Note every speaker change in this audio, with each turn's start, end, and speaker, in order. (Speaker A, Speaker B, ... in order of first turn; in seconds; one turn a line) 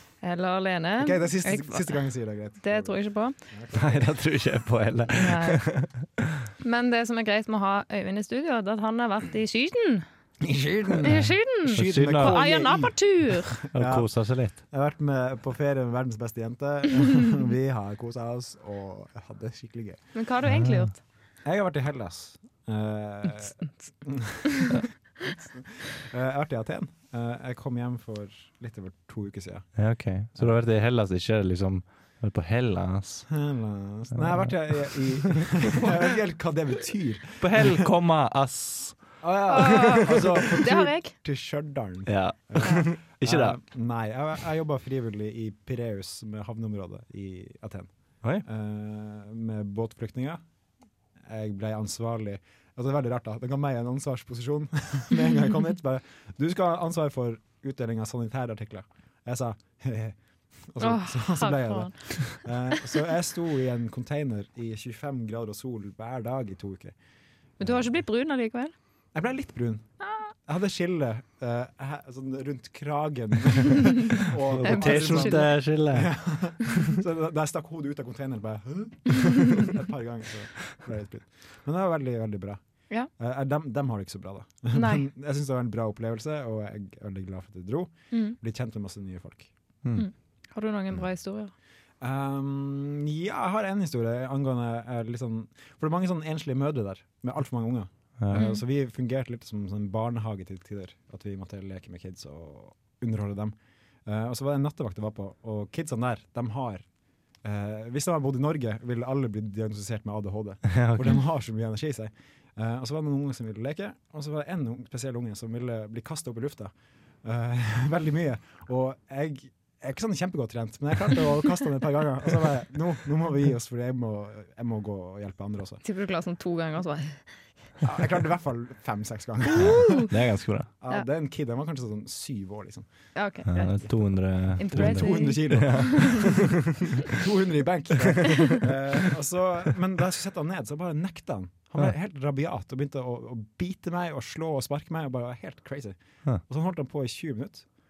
Speaker A: 0.2-2.0
Speaker B: 1.0-4.2
Speaker A: 2.6-3.4
Speaker C: 3.7-6.2
Speaker A: 5.1-5.6
Speaker A: 6.6-10.1
Speaker B: 10.4-20.1
Speaker A: 11.0-13.6
Speaker C: 11.0-12.4
Speaker C: 13.7-14.6
Speaker A: 20.1-21.0
Speaker C: 20.5-20.9
Speaker B: 21.4-24.7
Speaker A: 24.4-25.3
Speaker B: 25.4-29.8
Speaker C: 29.8-33.4
Speaker B: 33.3-37.9
Speaker C: 34.2-35.0
Speaker C: 37.4-40.4
Speaker B: 39.2-50.4
Speaker A: 39.5-41.1
Speaker C: 42.1-43.6
Speaker B: 51.2-67.0
Speaker A: 60.8-62.8
Speaker B: 67.6-68.0
Speaker A: 67.6-68.7
Speaker B: 69.1-89.5
Speaker A: 70.0-70.3
Speaker C: 74.5-76.2
Speaker A: 74.6-75.5
Speaker A: 84.7-85.1
Speaker A: 88.1-88.4
Speaker A: 90.0-91.5
Speaker B: 92.0-106.9
Speaker C: 98.2-98.5
Speaker A: 98.3-98.6
Speaker B: 107.4-116.7
Speaker C: 110.7-111.2
Speaker B: 117.2-125.8
Speaker A: 125.8-127.3
Speaker B: 127.8-130.1
Speaker A: 129.5-130.1
Speaker C: 129.5-130.7
Speaker B: 130.8-132.9
Speaker A: 133.2-136.2
Speaker C: 133.5-136.9
Speaker B: 134.7-147.7
Speaker C: 138.2-138.6